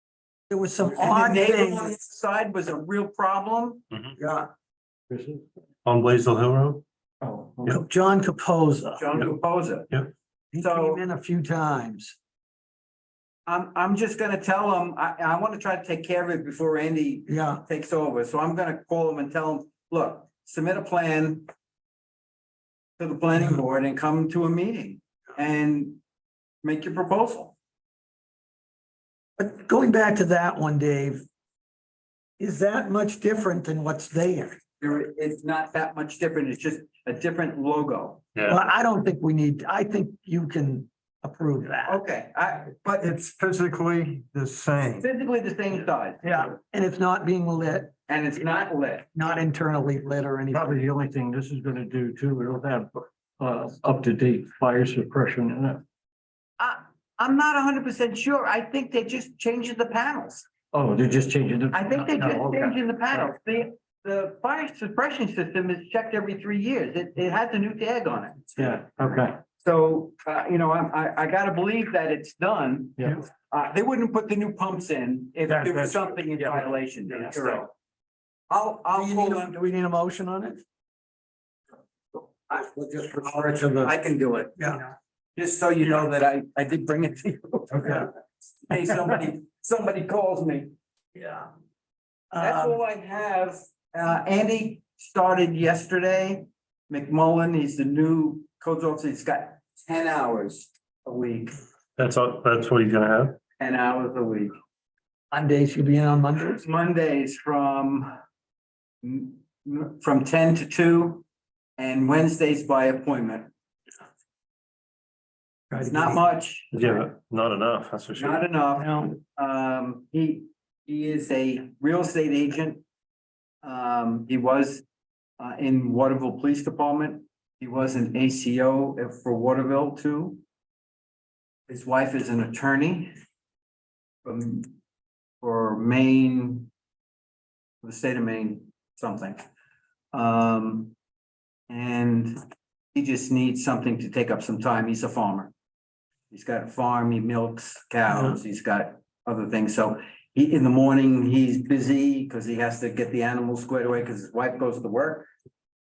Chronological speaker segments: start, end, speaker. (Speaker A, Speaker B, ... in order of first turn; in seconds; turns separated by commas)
Speaker A: 0.5-1.9, Speaker B: 0.9-3.8, Speaker C: 3.9-4.2, Speaker A: 4.2-4.5, Speaker D: 5.1-5.4, Speaker C: 5.8-6.8, Speaker A: 7.7-9.2, Speaker B: 9.0-9.9, Speaker A: 10.5-12.2, Speaker B: 10.6-11.0, Speaker B: 13.5-21.5, Speaker A: 17.3-17.6, Speaker B: 23.0-26.0, Speaker B: 26.6-27.6, Speaker A: 29.4-31.2, Speaker A: 32.4-34.6, Speaker B: 34.8-38.2, Speaker C: 38.4-38.6, Speaker A: 38.5-42.0, Speaker B: 41.9-43.1, Speaker D: 43.0-45.0, Speaker C: 43.2-45.0, Speaker B: 45.0-46.5, Speaker A: 46.2-47.9, Speaker B: 48.1-49.1, Speaker A: 49.1-50.9, Speaker C: 50.5-52.9, Speaker D: 50.6-55.8, Speaker C: 53.4-55.8, Speaker B: 56.6-60.5, Speaker C: 60.7-62.6, Speaker D: 60.8-62.7, Speaker B: 61.7-68.5, Speaker D: 68.6-69.3, Speaker C: 69.0-69.3, Speaker B: 69.6-77.7, Speaker D: 75.5-77.6, Speaker B: 78.5-79.6, Speaker A: 78.9-80.6, Speaker A: 82.5-83.9, Speaker B: 83.8-84.7, Speaker A: 84.6-84.8, Speaker B: 85.4-90.7, Speaker A: 87.8-88.1, Speaker A: 91.2-91.5, Speaker A: 92.3-92.8, Speaker B: 92.4-101.5, Speaker C: 102.0-103.4, Speaker B: 103.6-104.5, Speaker A: 105.3-106.7, Speaker B: 106.6-108.1, Speaker B: 109.0-111.2, Speaker B: 111.8-113.5, Speaker A: 115.7-116.2, Speaker B: 115.8-116.7, Speaker C: 116.7-118.4, Speaker B: 118.2-122.8, Speaker A: 118.8-119.1, Speaker B: 123.6-124.8, Speaker B: 125.4-130.4, Speaker B: 131.7-133.1, Speaker B: 134.2-134.7, Speaker B: 135.4-136.7, Speaker B: 137.8-139.4, Speaker B: 140.1-140.9, Speaker B: 141.7-142.4, Speaker B: 142.9-145.5, Speaker B: 146.3-155.3